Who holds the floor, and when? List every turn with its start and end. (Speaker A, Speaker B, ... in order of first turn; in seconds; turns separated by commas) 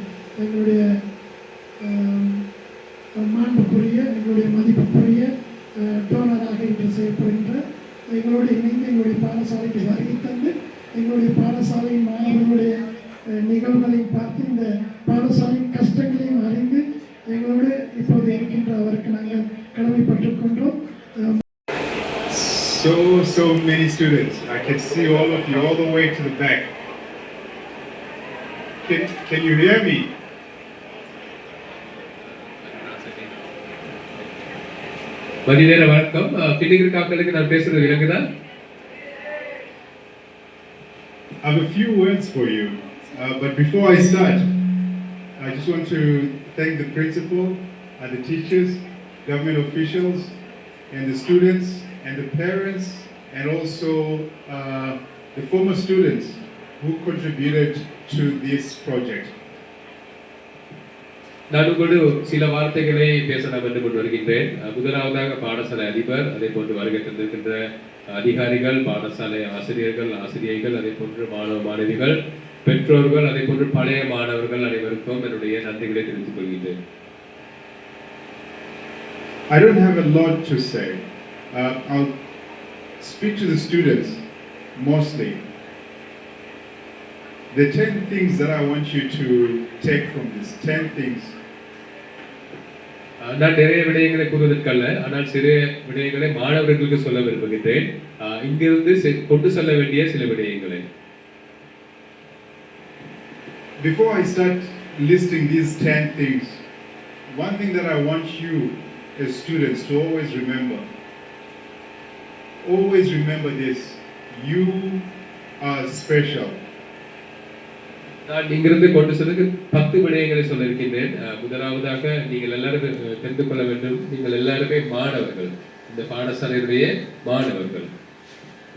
Speaker A: 0.4-0.8, Speaker A: 1.8-2.4, Speaker A: 3.2-5.3, Speaker A: 5.8-7.6, Speaker A: 8.1-12.8, Speaker A: 13.5-21.3, Speaker B: 22.3-26.7, Speaker B: 28.8-30.1, Speaker C: 32.6-33.5, Speaker C: 35.5-38.2, Speaker B: 41.4-44.4, Speaker B: 45.4-50.3, Speaker B: 50.9-59.3, Speaker C: 61.5-67.6, Speaker C: 68.1-76.7, Speaker B: 79.5-82.1, Speaker B: 83.0-84.2, Speaker B: 84.8-85.4, Speaker B: 87.5-91.3, Speaker C: 93.3-100.8, Speaker B: 103.8-106.6, Speaker B: 107.3-110.8, Speaker B: 112.6-115.1, Speaker B: 115.6-116.6, Speaker C: 118.2-127.9